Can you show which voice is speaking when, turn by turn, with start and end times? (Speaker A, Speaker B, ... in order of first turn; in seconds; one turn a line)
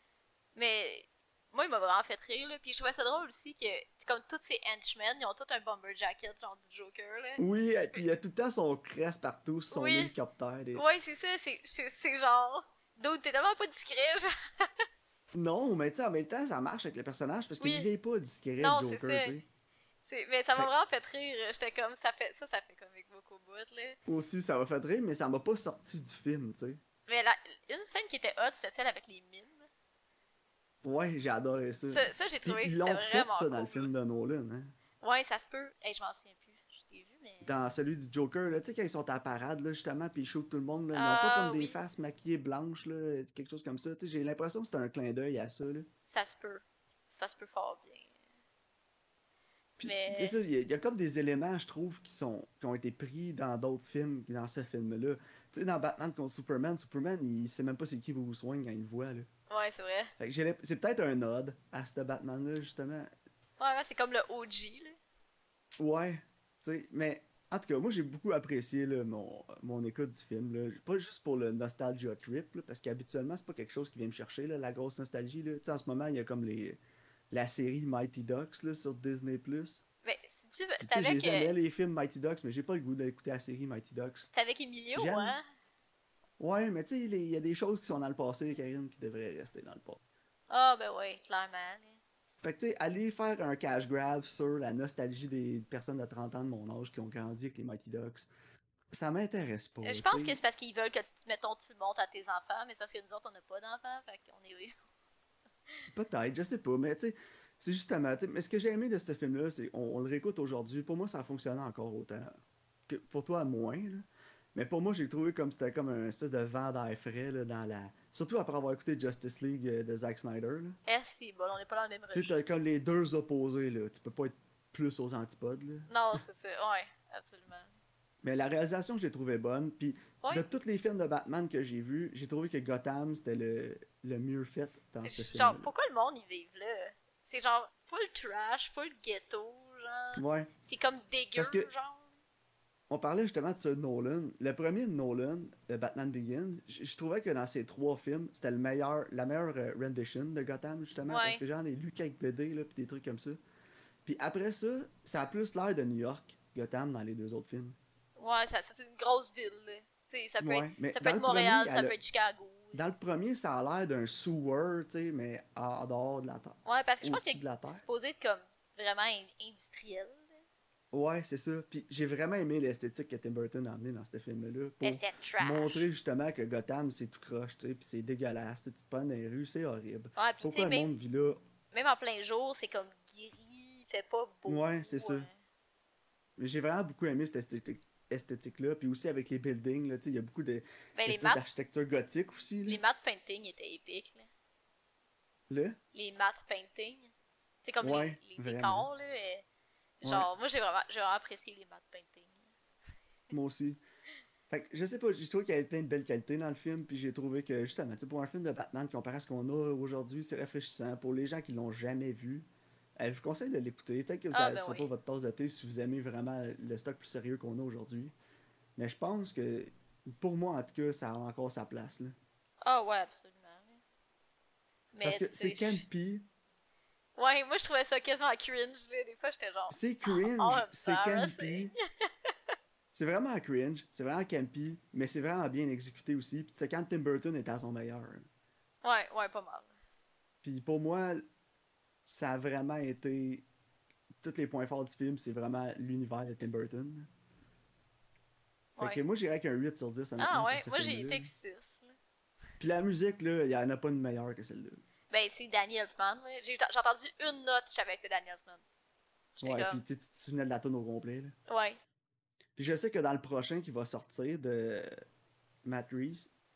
Speaker A: 0.5-7.4
Speaker B: 7.4-10.8
Speaker A: 9.7-10.1
Speaker A: 10.7-14.8
Speaker B: 15.3-19.4
Speaker A: 17.6-17.9
Speaker A: 18.6-19.3
Speaker A: 20.1-24.0
Speaker B: 24.1-26.8
Speaker A: 27.1-29.7
Speaker B: 30.8-34.7
Speaker A: 31.9-33.9
Speaker A: 35.0-37.5
Speaker B: 37.4-45.9
Speaker A: 40.9-41.8
Speaker A: 46.1-48.1
Speaker B: 49.8-59.3
Speaker A: 49.8-50.4
Speaker A: 59.5-60.1
Speaker B: 60.2-63.1
Speaker A: 63.6-65.0
Speaker B: 65.8-76.8
Speaker B: 77.3-79.8
Speaker A: 80.0-81.5
Speaker B: 80.8-84.3
Speaker A: 84.3-85.4
Speaker B: 84.9-85.4
Speaker B: 86.4-90.0
Speaker A: 90.5-92.0
Speaker B: 92.4-98.3
Speaker B: 98.9-100.4
Speaker A: 99.8-104.7
Speaker B: 105.9-120.8
Speaker A: 120.8-122.4
Speaker B: 122.1-125.9
Speaker A: 125.9-127.7
Speaker B: 128.2-135.7
Speaker A: 135.0-142.1
Speaker B: 140.1-140.5
Speaker B: 141.3-141.7
Speaker B: 142.9-153.4
Speaker A: 151.1-151.4
Speaker B: 154.0-157.8
Speaker A: 158.2-162.8
Speaker B: 160.4-161.9
Speaker B: 162.7-167.8
Speaker A: 166.6-170.4
Speaker B: 170.9-181.4
Speaker A: 174.8-175.8
Speaker A: 180.2-180.9
Speaker A: 181.7-185.3
Speaker B: 184.4-185.3
Speaker B: 186.4-192.8
Speaker A: 190.9-191.4
Speaker A: 192.7-194.3
Speaker B: 195.5-195.8
Speaker A: 195.9-197.1
Speaker A: 197.6-199.4
Speaker B: 197.8-198.9
Speaker A: 200.0-202.5
Speaker B: 200.0-200.3
Speaker B: 203.3-203.8
Speaker B: 204.5-218.1
Speaker A: 214.3-214.9
Speaker B: 218.8-222.2
Speaker A: 222.6-223.8
Speaker A: 224.9-225.8
Speaker B: 225.0-226.2
Speaker A: 227.2-232.6
Speaker B: 229.7-231.7
Speaker B: 232.9-238.3
Speaker A: 238.8-239.7
Speaker B: 240.4-241.2
Speaker B: 242.1-243.5
Speaker B: 244.2-247.1
Speaker A: 248.8-249.0
Speaker B: 248.8-251.3
Speaker A: 250.2-252.0
Speaker B: 252.6-254.8
Speaker A: 255.1-258.6
Speaker A: 259.4-259.8
Speaker B: 259.4-261.3
Speaker A: 261.5-261.8
Speaker B: 262.6-265.0
Speaker B: 265.6-266.3